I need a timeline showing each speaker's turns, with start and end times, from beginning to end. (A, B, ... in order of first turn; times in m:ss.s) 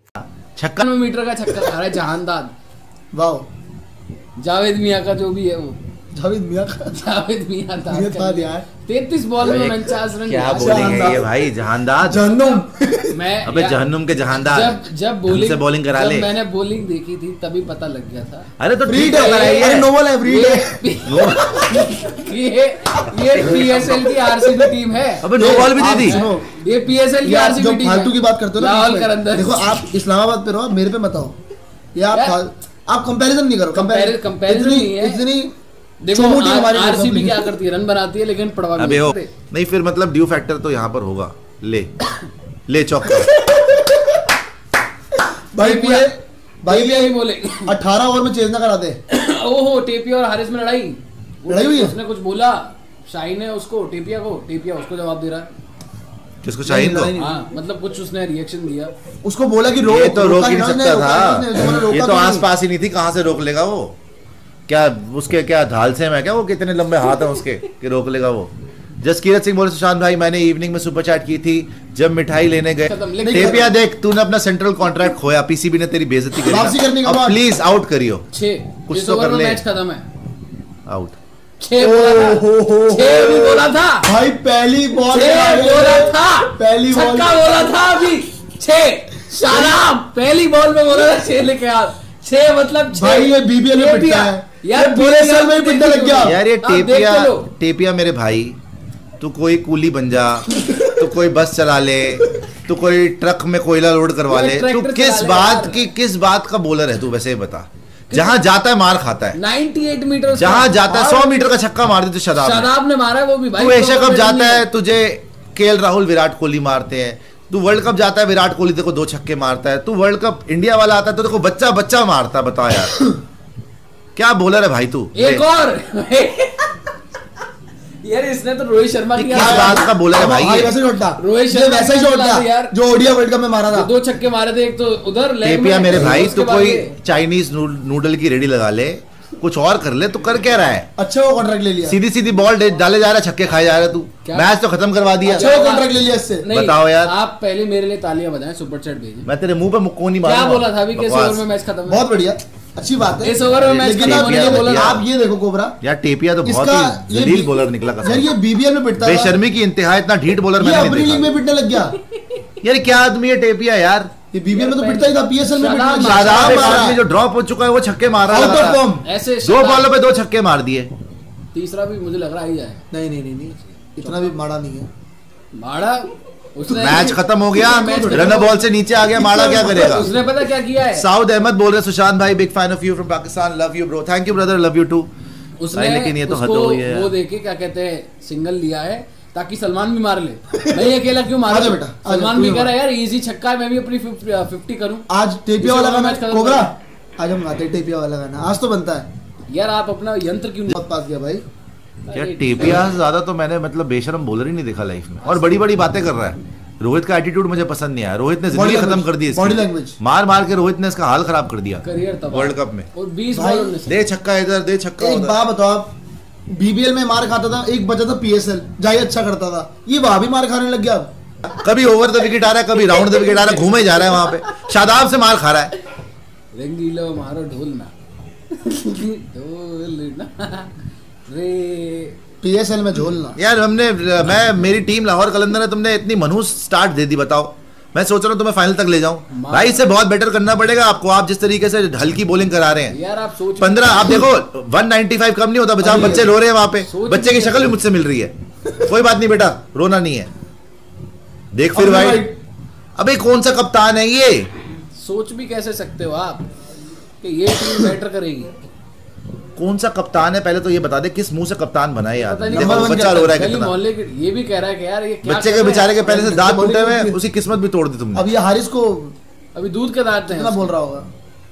0:00.2-0:00.8 A
0:00.8-0:02.5 B
0:03.1-0:03.4 C
0:04.4-0:05.8 B
0:06.1-0:07.0 C
0:06.9-0:11.2 B
0:07.9-0:08.6 C
0:09.4-0:12.3 A
0:10.5-0:11.3 C
0:12.0-0:13.1 C
0:13.1-0:13.8 B
0:13.4-0:16.3 A
0:14.4-0:18.5 B
0:18.6-0:19.9 A
0:18.8-0:20.8 C
0:19.0-0:29.7 B
0:21.0-0:21.9 A
0:23.4-0:24.1 A
0:25.2-0:26.2 A
0:25.4-0:26.4 C
0:27.2-0:31.3 C
0:31.9-0:35.5 C
0:33.7-0:35.2 B
0:36.0-0:39.3 B
0:36.1-0:37.5 C
0:38.8-0:41.9 A
0:42.7-0:43.4 A
0:45.5-0:49.0 C
0:45.6-0:46.1 B
0:46.7-0:47.8 B
0:49.1-0:55.5 B
0:51.5-0:52.0 C
0:56.4-0:57.1 A
0:56.6-0:57.4 C
0:57.2-0:58.9 B
0:59.2-1:02.5 C
0:59.8-1:04.0 A
1:04.7-1:18.2 A
1:12.8-1:13.7 B
1:13.2-1:13.6 C
1:16.5-1:17.4 C
1:18.3-1:20.0 B
1:18.9-1:19.6 A
1:20.9-1:21.2 A
1:21.6-1:24.1 B
1:21.8-1:27.4 C
1:25.1-1:37.5 B
1:32.9-1:36.4 C
1:36.2-1:38.6 A
1:39.2-1:49.4 A
1:44.3-1:45.9 B
1:48.1-1:48.4 B
1:49.4-1:51.4 B
1:50.3-1:52.7 A
1:52.4-1:54.6 B
1:53.6-2:02.9 A
2:04.2-2:05.4 A
2:05.1-2:06.8 B
2:08.0-2:09.9 B
2:09.1-2:10.7 A
2:09.4-2:13.9 C
2:11.2-2:12.7 B
2:13.7-2:16.9 B
2:15.4-2:20.9 A
2:21.0-2:22.0 C
2:21.8-2:25.5 A
2:24.2-2:24.6 B
2:25.2-2:25.9 B
2:25.2-2:26.4 C
2:26.4-2:29.3 B
2:26.5-2:27.1 A
2:29.2-2:31.4 A
2:30.2-2:32.0 B
2:31.9-2:35.8 C
2:33.2-2:35.0 B
2:33.8-2:35.0 A
2:35.8-2:38.3 A
2:36.4-2:39.4 C
2:39.0-2:41.3 A
2:40.6-2:42.0 C
2:42.6-2:44.1 A
2:44.3-2:47.0 C
2:44.5-2:46.8 B
2:46.0-2:48.8 A
2:48.3-2:49.0 C
2:48.5-2:49.9 B
2:49.4-2:50.9 A
2:51.5-2:52.8 B
2:52.9-2:54.9 C
2:53.9-2:54.3 B
2:55.5-2:58.7 B
2:56.8-3:00.1 A
2:57.5-2:58.5 C
2:59.1-3:00.0 C
2:59.2-3:01.0 B
3:00.9-3:05.1 A
3:05.6-3:15.0 B
3:05.7-3:07.1 A
3:11.4-3:12.7 C
3:15.1-3:19.1 C
3:15.6-3:16.7 B
3:19.5-3:20.7 B
3:20.7-3:21.4 C
3:22.1-3:22.9 B
3:22.1-3:32.9 A
3:25.2-3:25.6 B
3:28.5-3:30.0 C
3:31.8-3:34.0 B
3:33.3-3:33.8 C
3:33.8-3:35.4 A
3:35.0-3:35.9 C
3:36.5-3:41.1 C
3:41.5-3:45.7 A
3:43.2-3:44.5 B
3:46.5-3:47.9 B
3:48.5-3:50.7 B
3:51.3-3:52.2 B
3:52.4-3:53.4 C
3:53.4-4:03.0 A
3:59.3-3:59.8 B
4:02.9-4:04.3 B
4:03.6-4:10.3 A
4:05.8-4:06.3 C
4:05.9-4:07.8 B
4:11.5-4:12.3 A
4:11.7-4:12.4 C
4:13.0-4:14.5 A
4:15.0-4:16.5 B
4:17.2-4:18.6 B
4:19.6-4:23.7 A
4:22.2-4:26.3 B
4:22.5-4:23.3 C
4:25.2-4:28.3 A
4:26.1-4:27.2 C
4:28.1-4:29.1 C
4:29.5-4:30.7 B
4:30.3-4:31.1 C